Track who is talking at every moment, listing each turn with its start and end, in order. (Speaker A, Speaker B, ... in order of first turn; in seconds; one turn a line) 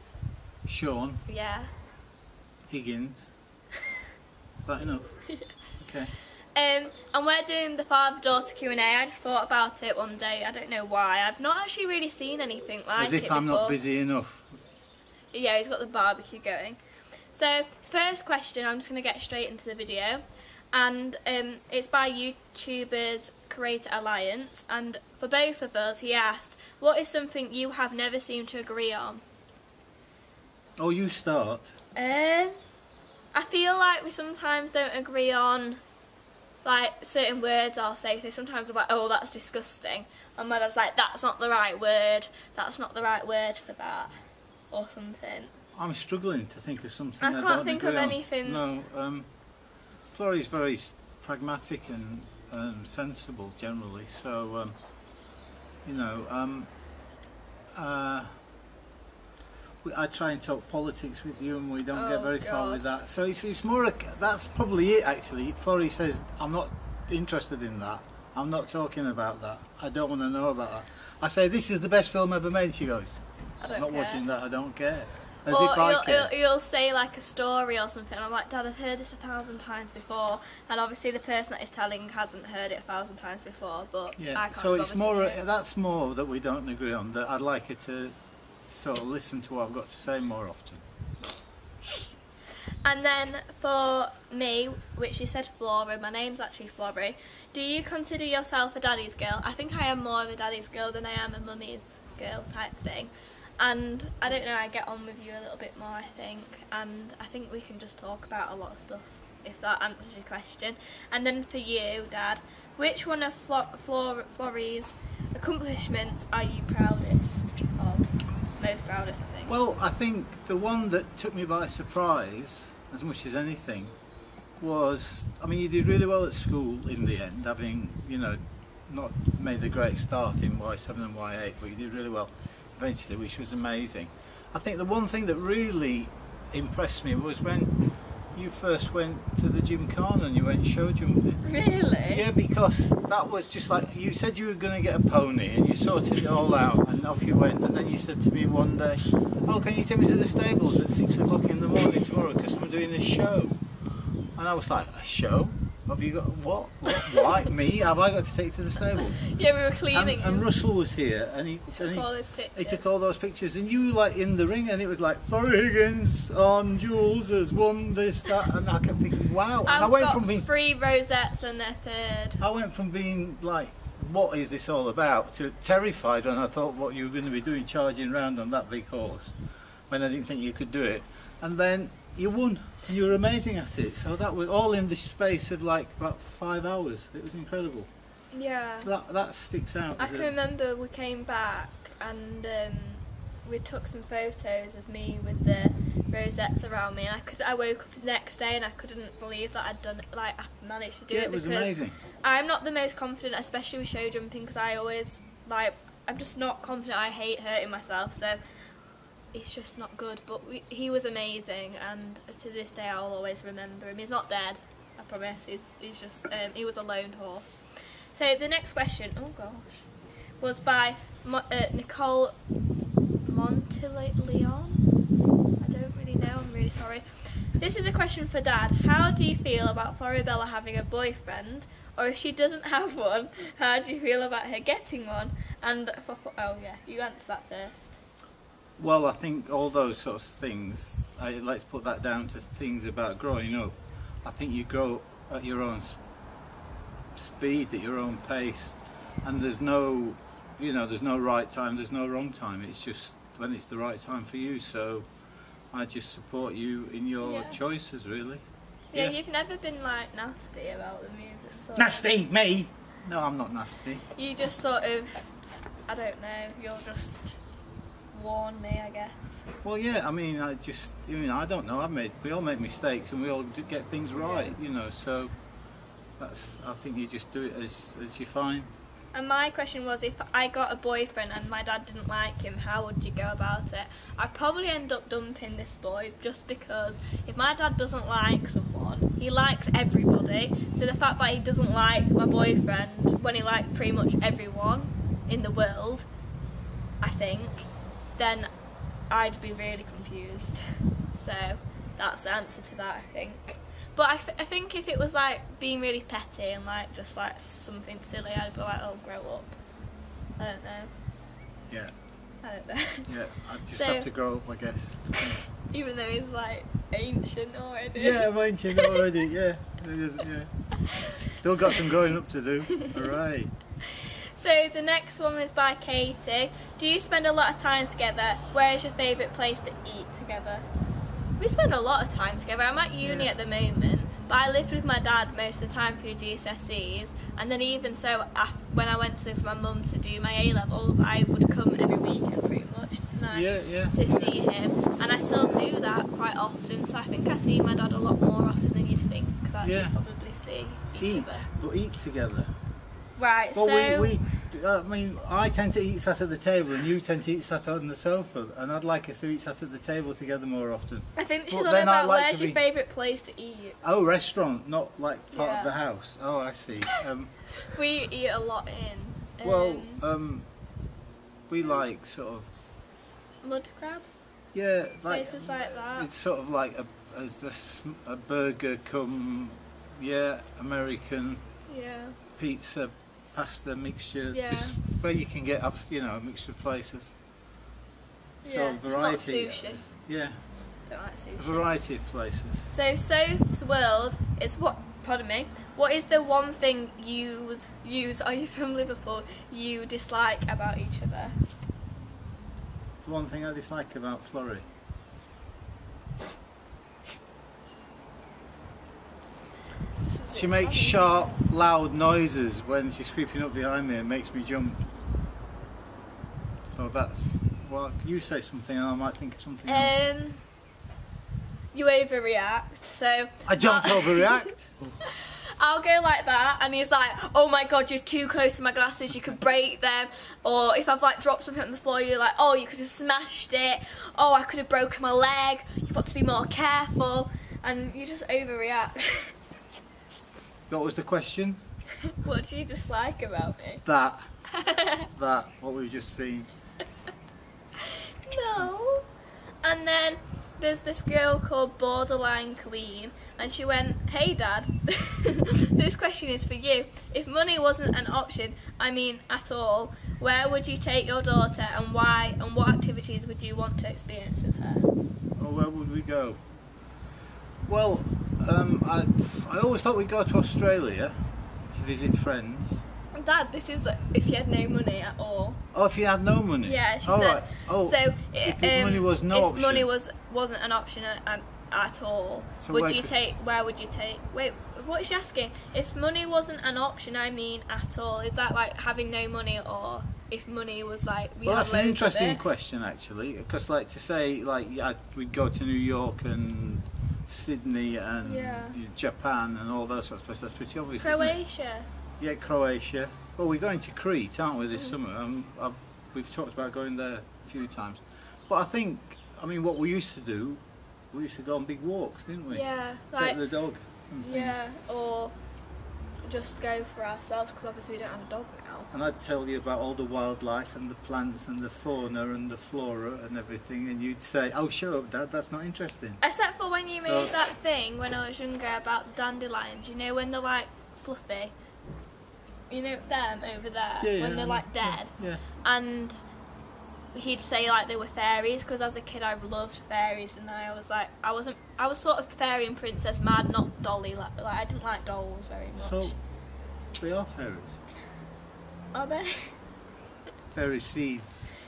Speaker A: 0.6-1.2
Speaker B: 1.3-1.7
Speaker A: 2.7-3.3
Speaker A: 4.6-5.2
Speaker B: 5.3-5.5
Speaker A: 5.8-6.1
Speaker B: 6.5-13.8
Speaker A: 13.0-14.6
Speaker B: 15.3-16.8
Speaker B: 17.3-29.2
Speaker A: 30.8-31.7
Speaker B: 31.9-32.5
Speaker B: 33.3-35.8
Speaker B: 36.6-44.1
Speaker B: 44.7-45.5
Speaker A: 45.7-49.3
Speaker B: 47.2-48.6
Speaker A: 50.1-54.7
Speaker A: 55.8-56.7
Speaker A: 57.7-58.3
Speaker A: 59.8-76.3
Speaker B: 61.9-63.0
Speaker B: 73.6-74.2
Speaker B: 75.5-85.4
Speaker A: 84.2-88.1
Speaker A: 88.7-90.8
Speaker B: 92.8-119.5
Speaker A: 119.5-123.9
Speaker A: 124.6-137.8
Speaker A: 138.3-141.4
Speaker B: 141.4-142.2
Speaker A: 142.1-153.6
Speaker A: 154.3-159.3
Speaker B: 159.2-160.4
Speaker A: 159.9-170.4
Speaker B: 161.7-162.8
Speaker B: 169.7-172.4
Speaker A: 172.4-179.3
Speaker A: 179.9-187.9
Speaker B: 188.3-188.9
Speaker A: 188.8-190.3
Speaker B: 190.0-208.4
Speaker A: 201.1-202.0
Speaker B: 209.3-217.6
Speaker B: 218.1-219.9
Speaker B: 220.4-222.4
Speaker B: 223.2-224.8
Speaker B: 225.6-237.9
Speaker A: 238.8-246.0
Speaker A: 247.2-255.1
Speaker A: 255.7-259.1
Speaker B: 257.2-257.6
Speaker B: 258.9-262.1
Speaker A: 261.8-264.0
Speaker B: 264.1-265.3
Speaker B: 265.9-267.4
Speaker B: 268.1-269.3
Speaker A: 269.6-275.3
Speaker B: 274.2-274.5
Speaker A: 276.2-278.7
Speaker B: 279.1-296.1
Speaker B: 297.0-298.5
Speaker B: 299.1-300.6
Speaker B: 301.1-309.6
Speaker B: 310.4-310.9
Speaker A: 311.7-311.9
Speaker B: 312.4-313.1
Speaker A: 313.1-315.4
Speaker B: 313.7-314.1
Speaker B: 315.2-319.0
Speaker A: 317.9-320.5
Speaker B: 320.9-321.8
Speaker A: 321.2-323.5
Speaker B: 323.9-330.6
Speaker B: 331.4-351.5
Speaker A: 333.0-333.3
Speaker A: 343.3-344.4
Speaker A: 349.6-350.0
Speaker A: 351.0-352.5
Speaker B: 353.2-354.1
Speaker A: 353.5-362.6
Speaker B: 361.1-363.8
Speaker A: 363.8-367.4
Speaker B: 365.3-365.8
Speaker B: 367.6-370.0
Speaker A: 369.4-370.5
Speaker A: 371.5-372.5
Speaker B: 373.4-374.1
Speaker A: 374.5-381.4
Speaker B: 375.1-376.1
Speaker B: 381.7-382.2
Speaker A: 382.4-387.1
Speaker B: 384.3-384.8
Speaker A: 388.4-390.4
Speaker B: 388.4-389.8
Speaker B: 390.9-391.7
Speaker A: 391.4-392.7
Speaker B: 392.7-401.4
Speaker A: 403.0-404.6
Speaker B: 410.0-411.3
Speaker A: 410.3-414.8
Speaker A: 416.7-420.0
Speaker B: 419.7-420.4
Speaker B: 421.7-424.5
Speaker A: 423.4-425.0
Speaker B: 425.1-439.3
Speaker A: 440.7-441.6
Speaker B: 442.1-443.8
Speaker A: 443.8-444.3
Speaker B: 444.5-445.1
Speaker A: 445.1-446.5
Speaker B: 447.8-449.1
Speaker B: 449.6-464.9
Speaker A: 465.4-466.4
Speaker A: 467.6-471.1
Speaker A: 471.7-472.8
Speaker B: 473.1-475.6
Speaker A: 475.7-479.9
Speaker B: 476.6-492.4
Speaker A: 482.6-483.1
Speaker A: 491.4-501.4
Speaker B: 498.2-498.8
Speaker B: 501.0-501.9
Speaker A: 502.2-514.6
Speaker B: 512.5-513.4
Speaker B: 514.2-515.4
Speaker B: 516.2-518.9
Speaker A: 518.9-526.2
Speaker B: 526.2-531.5
Speaker A: 527.0-527.3
Speaker B: 532.7-536.2
Speaker A: 534.0-535.4
Speaker B: 537.1-546.1
Speaker A: 545.8-546.1
Speaker A: 547.0-547.8
Speaker B: 548.9-549.6
Speaker A: 550.5-551.5